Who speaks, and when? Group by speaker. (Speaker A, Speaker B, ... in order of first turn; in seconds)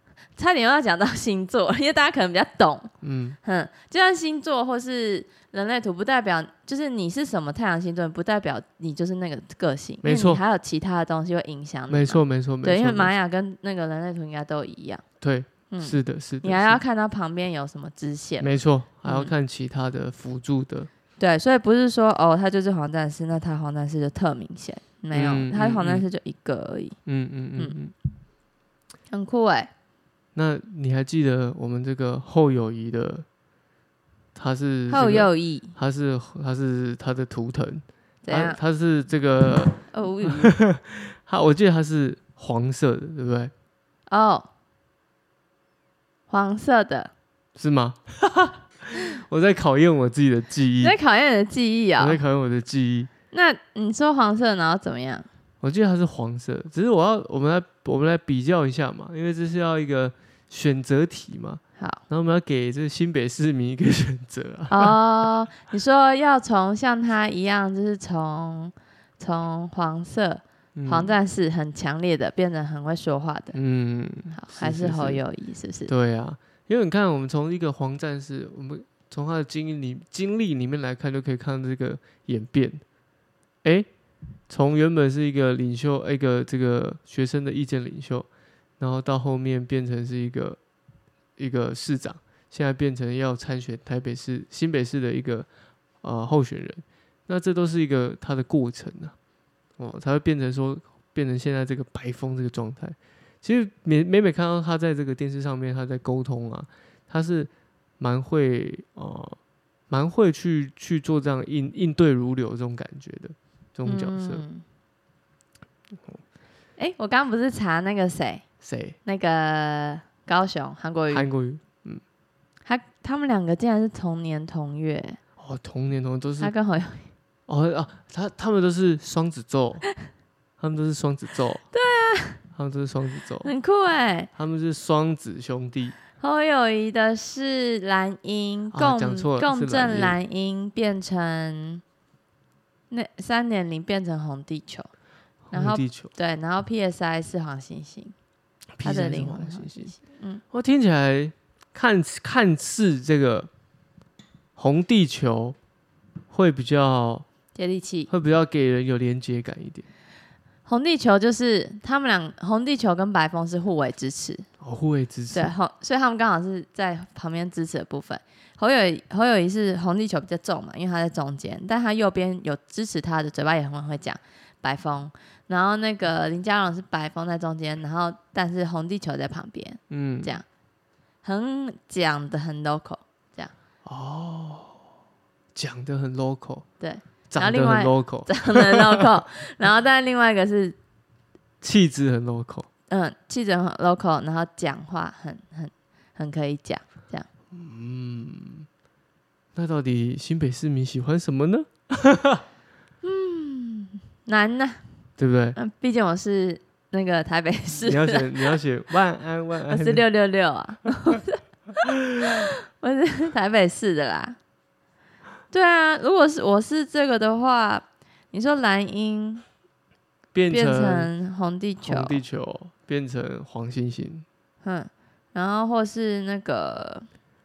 Speaker A: 0.4-2.9, 3.4-15.0, 15.7-18.5, 19.0-19.3, 21.2-27.0, 29.1-29.7, 34.9-35.7, 38.2-38.6, 39.8-40.5, 44.1-44.5, 46.3-47.1, 50.8-52.2, 53.3-55.3, 61.8-62.0, 64.7-73.5, 74.3-75.9, 113.9-114.6, 116.8-118.4, 119.0-121.2, 122.7-125.2, 126.4-127.1, 131.7-132.4, 133.4-134.3, 136.2-141.8, 142.9-144.9, 145.5-148.1, 148.8-150.4, 157.5-158.1, 160.7-164.5, 165.3-180.4, 181.2-183.5, 186.8-190.8, 192.9-197.3, 203.0-204.8, 205.6-208.6, 209.7-214.4, 215.5-219.4, 220.5-222.2, 224.6-227.1
Speaker B: 3.0-3.4, 10.0-10.4, 11.9-13.1, 15.2-16.8, 18.4-20.9, 25.1-26.0, 27.1-27.9, 30.4-33.2, 34.4-43.5, 47.5-50.9, 52.0-53.1, 55.6-65.0, 70.7-71.1, 73.5-75.2, 75.9-82.8, 84.5-88.3, 88.8-90.6, 91.4-95.5, 96.0-99.1, 99.8-109.4, 109.9-114.4, 118.6-119.0, 121.1-122.0, 125.4-126.5, 127.5-129.9, 130.6-131.6, 132.5-133.5, 134.4-135.9, 138.7-140.2, 145.5-146.1, 148.8-149.9, 150.5-153.5, 154.6-155.6, 156.3-157.2, 158.1-159.9, 164.6-165.5, 179.9-180.3, 183.8-184.8, 185.5-186.6, 187.3-189.1, 191.6-192.7, 197.5-198.7, 199.5-202.4, 205.2-205.6, 207.8-210.0, 220.3-221.1, 221.8-224.2